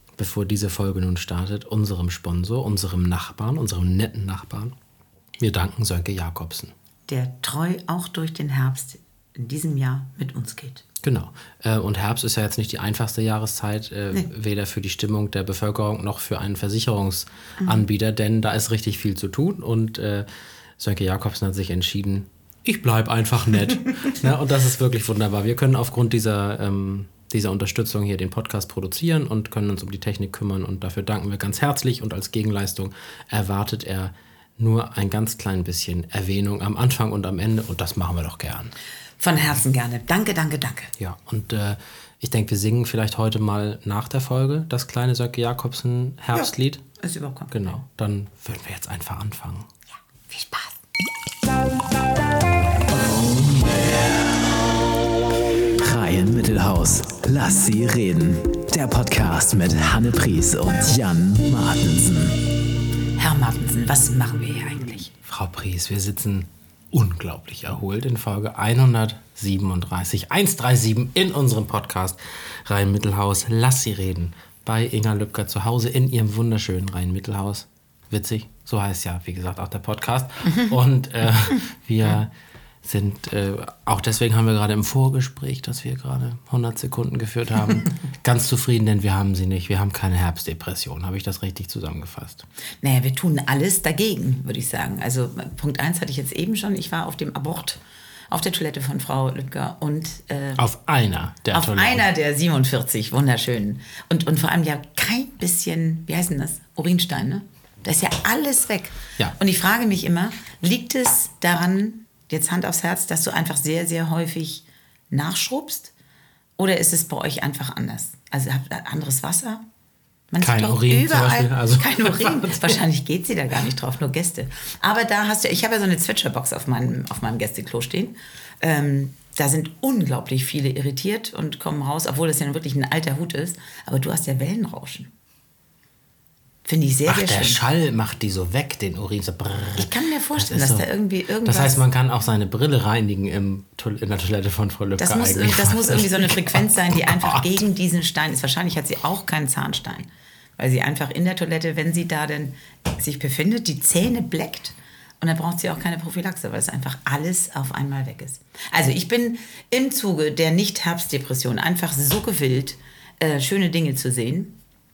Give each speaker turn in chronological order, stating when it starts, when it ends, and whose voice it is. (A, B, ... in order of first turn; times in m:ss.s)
0:00.2-0:04.7 A
0:05.4-0:06.7 A
0:07.1-0:10.8 B
0:11.0-0:20.3 A
0:20.8-0:38.7 A
0:39.2-0:40.9 B
0:41.0-0:46.8 A
0:47.0-0:47.7 B
0:47.5-0:49.7 A
0:50.3-0:50.8 B
0:52.9-0:54.4 C
0:55.8-1:02.4 C
1:03.2-1:05.1 B
1:05.2-1:22.3 A
1:22.8-1:32.4 A
1:32.8-1:37.8 B
1:38.3-1:40.6 B
1:40.6-1:42.1 A
1:41.5-1:55.9 B
1:56.6-1:59.6 B
2:00.3-2:15.1 B
2:00.4-2:02.8 A
2:16.6-2:17.6 B
2:17.1-2:20.9 A
2:19.8-2:21.8 B
2:21.4-2:27.5 A
2:25.0-2:44.6 B